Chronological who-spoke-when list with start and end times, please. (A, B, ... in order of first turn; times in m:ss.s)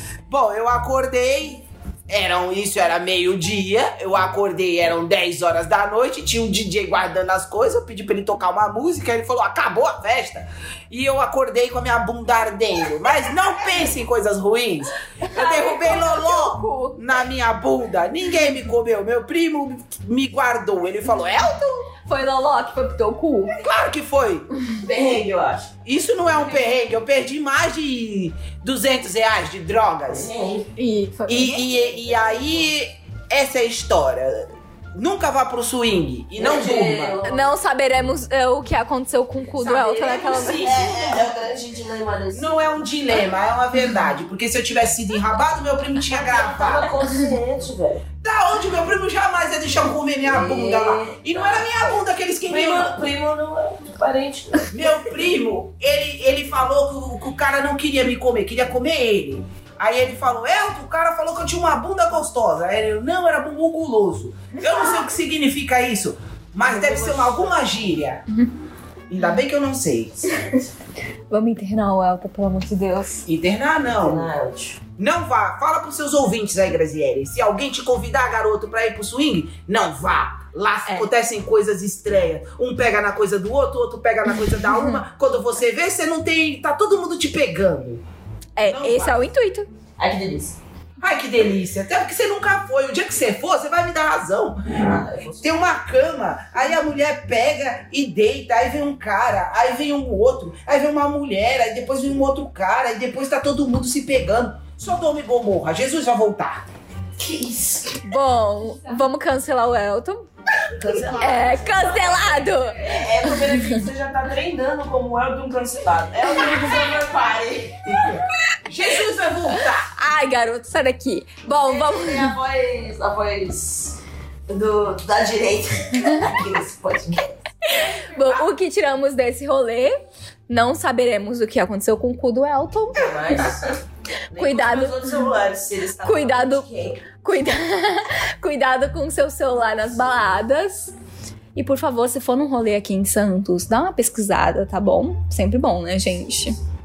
0:00.3-0:21.9 A
0:15.2-0:17.0 B
0:22.1-0:23.8 B
0:23.5-0:24.5 A
0:24.7-0:25.7 C
0:25.8-0:30.3 A
0:30.1-0:30.7 C
0:30.8-0:31.8 B
0:31.3-0:37.2 A
0:32.1-0:32.5 C
0:36.4-0:37.5 C
0:37.2-0:41.1 B
0:39.6-0:42.9 C
0:40.9-0:41.2 A
0:42.3-0:46.9 A
0:46.0-0:48.0 C
0:48.2-0:52.9 A
0:50.2-0:51.6 C
0:52.5-0:55.0 C
0:54.7-1:08.2 A
1:06.6-1:07.7 C
1:09.1-1:10.2 A
1:11.3-1:13.2 B
1:13.3-1:14.3 A
1:13.9-1:14.8 C
1:15.0-1:28.0 A
1:24.6-1:25.0 B
1:28.6-1:29.7 B
1:28.7-1:29.3 A
1:30.0-1:30.6 C
1:31.0-1:46.6 A
1:34.8-1:35.8 C
1:47.2-1:48.0 C
1:48.0-1:50.2 B
1:50.8-1:58.0 C
1:51.2-1:53.8 B
1:58.0-1:59.9 A
1:59.9-2:02.3 B
2:01.6-2:04.0 C
2:04.5-2:07.4 C
2:07.6-2:13.4 B
2:12.9-2:13.8 C
2:14.3-2:17.0 C
2:14.3-2:15.0 B
2:16.0-2:20.9 B
2:21.5-2:26.5 B